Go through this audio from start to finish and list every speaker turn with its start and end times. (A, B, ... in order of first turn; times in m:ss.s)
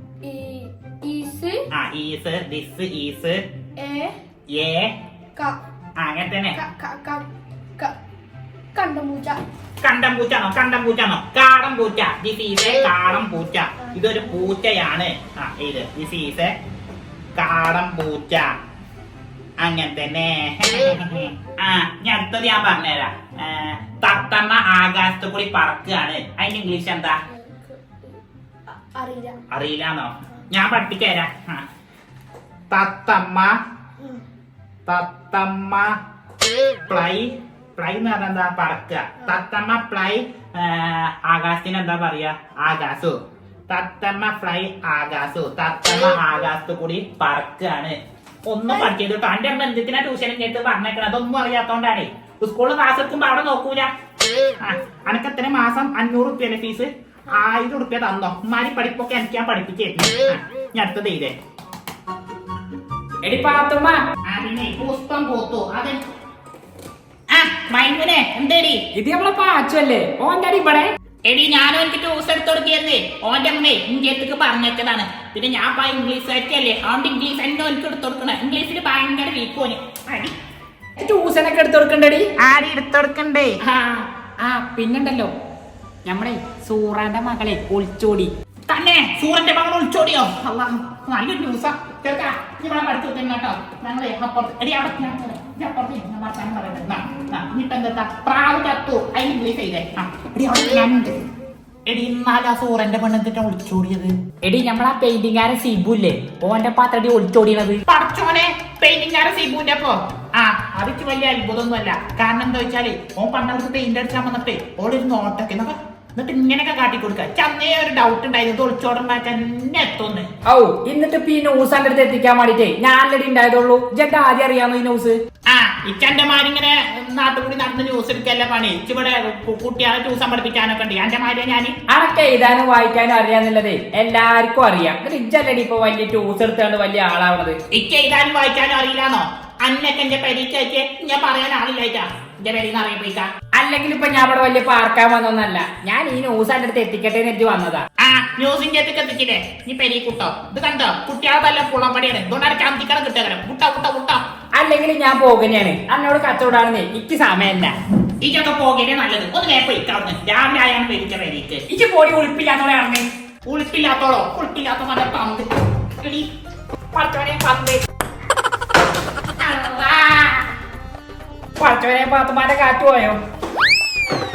0:00.2-0:01.6 A
0:01.7-0:03.4 B
0:03.8-0:04.2 A
0:04.5-0:04.9 B
0:06.0-0:06.6 B
0:06.5-0:07.2 A
0:08.7-0:09.4 A
0:09.8-0:16.5 B
0:13.8-0:14.5 A
0:17.3-0:18.5 B
0:19.6-0:27.2 B
0:27.3-0:28.2 A
0:28.7-0:29.4 A
0:29.5-0:31.6 B
0:32.7-0:33.5 B
0:34.8-0:35.9 B
0:36.9-0:43.2 B
0:43.7-0:53.9 B
0:54.6-1:01.3 B
1:03.2-1:04.0 C
1:04.2-1:06.0 B
1:07.3-1:08.8 B
1:08.9-1:10.9 C
1:11.2-1:20.4 B
1:21.0-1:22.3 C
1:22.4-1:23.7 B
1:23.8-1:25.3 C
1:26.0-1:28.3 C
1:28.7-1:41.2 B
1:41.9-1:44.1 B
1:44.4-1:47.8 C
1:47.8-2:00.3 B
2:00.5-2:05.2 C
2:05.5-2:11.7 B
2:11.9-2:17.6 C
2:17.7-2:23.3 B
2:23.5-2:27.8 C
2:28.0-2:34.2 B
2:34.6-2:37.7 C
2:38.2-2:41.6 B
2:41.7-2:43.1 C
2:43.4-2:45.5 B
2:46.0-2:46.3 B
2:46.9-2:47.8 B
2:47.2-2:47.6 C
2:49.4-2:50.3 B
2:51.6-2:53.2 C